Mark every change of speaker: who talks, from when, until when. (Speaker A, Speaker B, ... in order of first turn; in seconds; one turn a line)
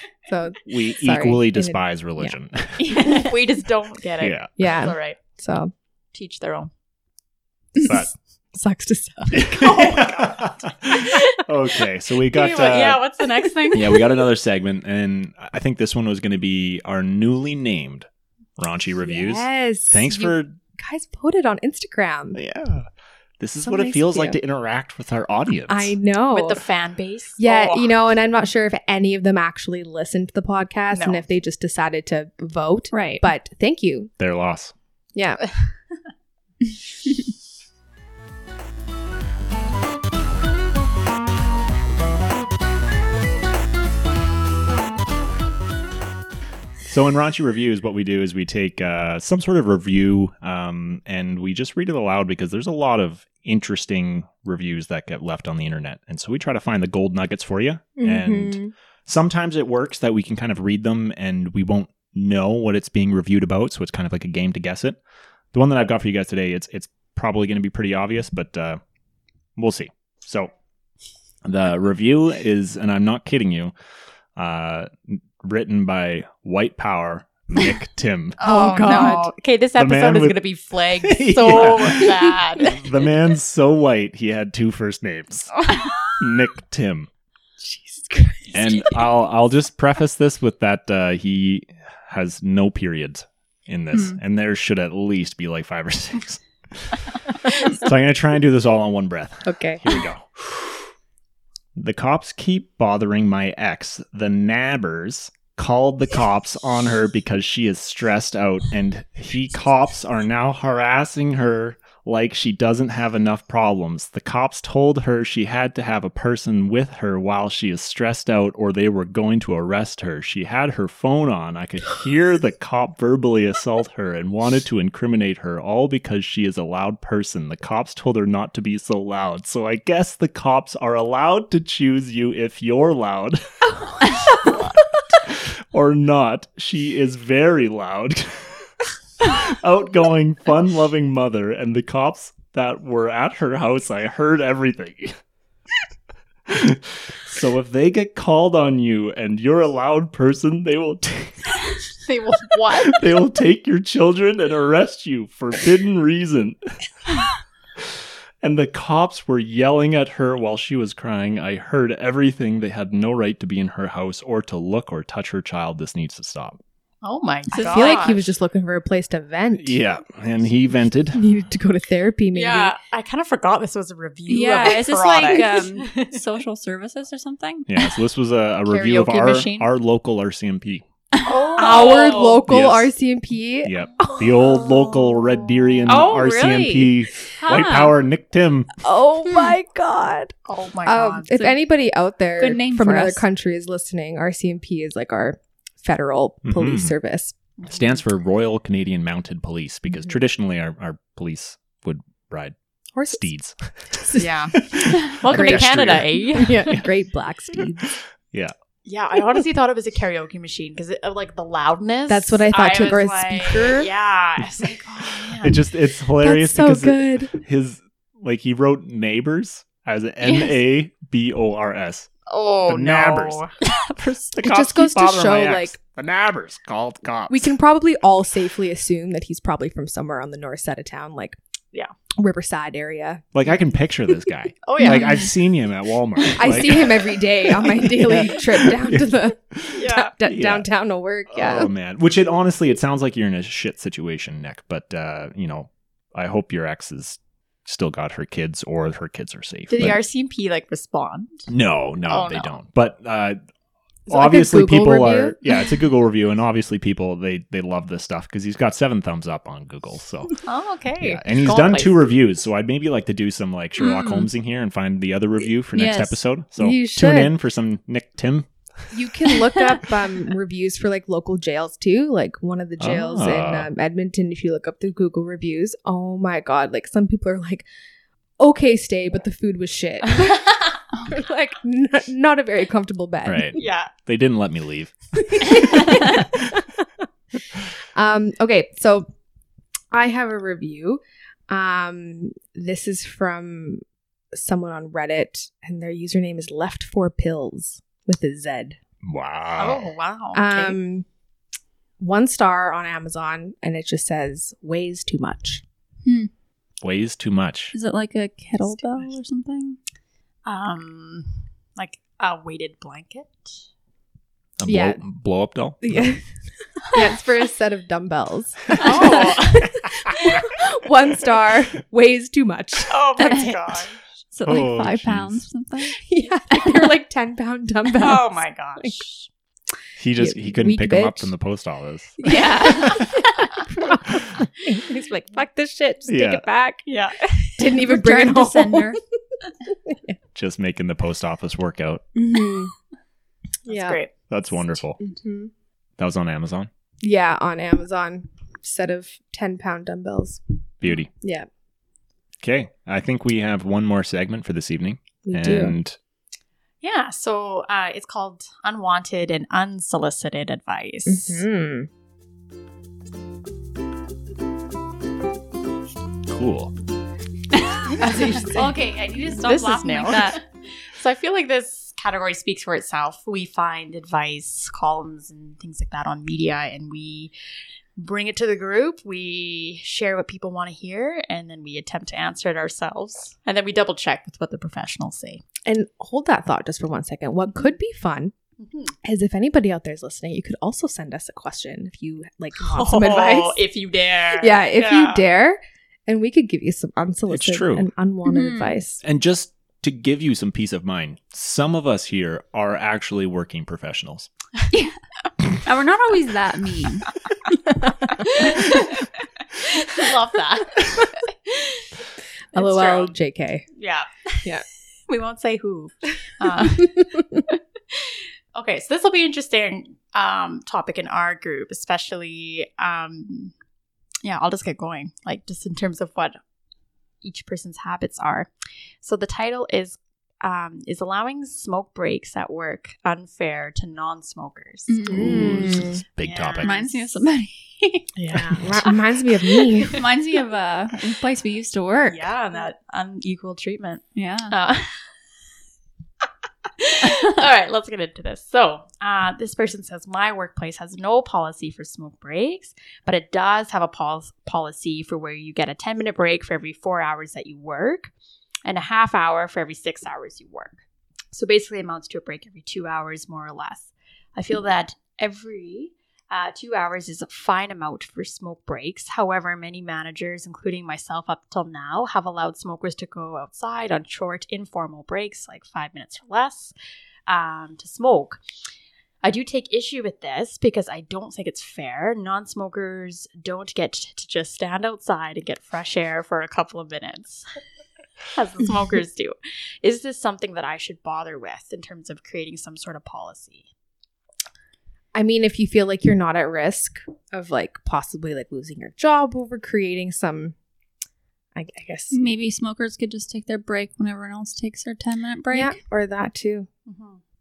Speaker A: 0.2-2.3
Speaker B: 0.6-3.0
Speaker C: 2.8-3.2
Speaker D: 2.9-5.2
Speaker B: 4.2-4.5
Speaker A: 4.6-5.7
Speaker D: 6.1-6.7
Speaker B: 7.8-8.1
Speaker A: 8.5-9.8
Speaker B: 9.3-13.0
Speaker D: 9.6-11.4
Speaker D: 12.2-14.2
Speaker B: 13.7-20.6
Speaker A: 19.0-22.4
Speaker B: 22.3-22.9
Speaker B: 23.4-25.9
Speaker A: 23.6-24.4
Speaker A: 25.7-26.6
Speaker D: 26.3-27.9
Speaker A: 27.4-34.1
Speaker D: 30.9-31.2
Speaker C: 32.9-33.2
Speaker B: 34.2-34.7
Speaker A: 35.1-35.4
Speaker B: 46.9-65.0
Speaker A: 58.0-58.7
Speaker B: 65.5-68.8
Speaker B: 69.5-70.5
Speaker B: 71.4-73.7
Speaker B: 74.3-78.4
Speaker D: 78.4-83.0
Speaker A: 78.4-79.3
Speaker B: 79.8-80.4
Speaker B: 81.0-87.1
Speaker A: 87.6-89.0
Speaker B: 88.5-100.9
Speaker C: 93.9-94.2
Speaker A: 99.4-99.8
Speaker B: 101.8-133.5
Speaker B: 134.1-134.6
Speaker B: 135.2-138.7
Speaker B: 139.3-145.2
Speaker B: 146.5-151.6
Speaker D: 152.0-153.1
Speaker B: 152.8-156.7
Speaker B: 157.8-166.6
Speaker D: 167.0-168.2
Speaker C: 167.5-168.1
Speaker A: 167.5-169.8
Speaker B: 169.6-171.2
Speaker A: 171.1-172.7
Speaker D: 172.3-176.2
Speaker C: 174.3-178.0
Speaker B: 177.7-180.9
Speaker D: 178.7-179.7
Speaker C: 181.1-182.3
Speaker D: 181.2-182.4
Speaker A: 181.6-184.9
Speaker B: 182.4-182.9
Speaker B: 183.6-188.8
Speaker C: 185.9-187.9
Speaker A: 188.8-197.3
Speaker D: 190.5-191.3
Speaker C: 192.4-193.2
Speaker B: 196.4-196.9
Speaker B: 197.7-202.5
Speaker A: 202.9-203.2
Speaker B: 203.1-206.8
Speaker A: 203.9-204.3
Speaker D: 204.2-206.7
Speaker A: 205.2-207.9
Speaker B: 207.8-208.5
Speaker D: 208.8-215.7
Speaker A: 212.1-213.9
Speaker B: 215.4-222.1
Speaker A: 216.2-217.3
Speaker C: 220.2-220.6
Speaker D: 222.3-223.7
Speaker B: 222.7-223.5
Speaker B: 224.3-227.5
Speaker A: 224.4-225.8
Speaker A: 227.3-231.4
Speaker A: 232.2-233.3
Speaker B: 233.3-240.7
Speaker D: 234.6-235.3
Speaker A: 236.3-241.7
Speaker D: 239.8-240.1
Speaker B: 241.3-250.0
Speaker D: 249.7-251.5
Speaker B: 251.5-253.4
Speaker D: 252.1-252.5
Speaker A: 254.1-255.3
Speaker B: 254.1-260.4
Speaker D: 260.4-262.1
Speaker B: 261.0-268.5
Speaker C: 263.8-264.3
Speaker C: 265.7-266.2
Speaker A: 266.6-267.3
Speaker A: 268.9-277.6
Speaker B: 272.8-273.7
Speaker A: 278.4-280.5
Speaker D: 280.1-280.7
Speaker A: 281.1-283.6
Speaker B: 283.2-286.5
Speaker D: 283.6-283.9
Speaker A: 285.3-286.8
Speaker A: 287.9-289.1
Speaker A: 289.9-293.8
Speaker A: 294.3-298.8
Speaker B: 299.0-299.9
Speaker D: 299.6-300.8
Speaker A: 300.3-301.1
Speaker A: 302.0-305.6
Speaker C: 306.0-306.3
Speaker B: 306.8-307.7
Speaker C: 307.7-309.8
Speaker D: 310.4-313.6
Speaker B: 314.6-316.1
Speaker A: 314.6-315.0
Speaker A: 315.8-316.3
Speaker A: 316.8-323.3
Speaker D: 318.8-319.7
Speaker B: 320.1-320.3
Speaker D: 322.9-324.0
Speaker C: 323.2-323.6
Speaker C: 324.3-326.9
Speaker B: 324.4-325.4
Speaker A: 326.0-329.0
Speaker D: 327.9-329.3
Speaker B: 330.0-333.2
Speaker A: 330.2-331.3
Speaker A: 332.2-336.8
Speaker C: 332.2-333.1
Speaker B: 336.1-336.4
Speaker D: 336.9-337.6
Speaker A: 337.6-339.0
Speaker C: 337.6-339.0
Speaker A: 339.8-340.1
Speaker B: 340.3-342.0
Speaker A: 342.1-342.7
Speaker A: 343.6-344.0
Speaker D: 343.7-344.1
Speaker B: 344.3-345.0
Speaker A: 345.0-345.5
Speaker B: 346.0-346.7
Speaker A: 347.0-350.4
Speaker B: 350.8-351.1
Speaker A: 351.1-351.5
Speaker B: 352.4-356.0
Speaker A: 355.2-355.7
Speaker D: 356.8-361.4
Speaker A: 361.1-361.9
Speaker B: 366.3-366.7
Speaker C: 367.5-370.4
Speaker D: 368.0-368.7
Speaker D: 369.3-377.3
Speaker D: 378.0-385.4
Speaker A: 385.6-388.3
Speaker D: 388.6-388.9
Speaker A: 389.0-393.6
Speaker D: 392.6-395.2
Speaker A: 394.4-399.0
Speaker B: 397.3-397.9
Speaker C: 398.2-398.8
Speaker B: 399.0-404.3
Speaker C: 404.7-405.0
Speaker C: 405.6-407.1
Speaker D: 408.3-409.0
Speaker C: 408.4-408.8
Speaker D: 409.5-411.9
Speaker A: 412.5-413.7
Speaker D: 412.5-413.1
Speaker D: 413.8-414.5
Speaker D: 415.1-423.5
Speaker D: 424.2-426.4
Speaker D: 427.2-428.5
Speaker D: 429.0-435.4
Speaker C: 434.9-435.9
Speaker A: 435.1-436.0
Speaker B: 435.1-436.8
Speaker D: 436.2-437.0
Speaker C: 436.6-438.1
Speaker D: 438.2-439.0
Speaker A: 438.6-440.0
Speaker D: 439.6-439.9
Speaker C: 439.8-442.3
Speaker D: 442.1-445.1
Speaker C: 444.1-444.5
Speaker D: 446.8-458.1
Speaker C: 447.0-447.5
Speaker D: 458.6-460.8
Speaker D: 461.3-476.7
Speaker D: 477.3-478.4
Speaker D: 479.2-487.6
Speaker D: 488.3-493.7
Speaker A: 495.1-500.5
Speaker A: 501.5-502.2
Speaker C: 502.1-505.8
Speaker A: 505.5-506.7
Speaker D: 506.9-507.2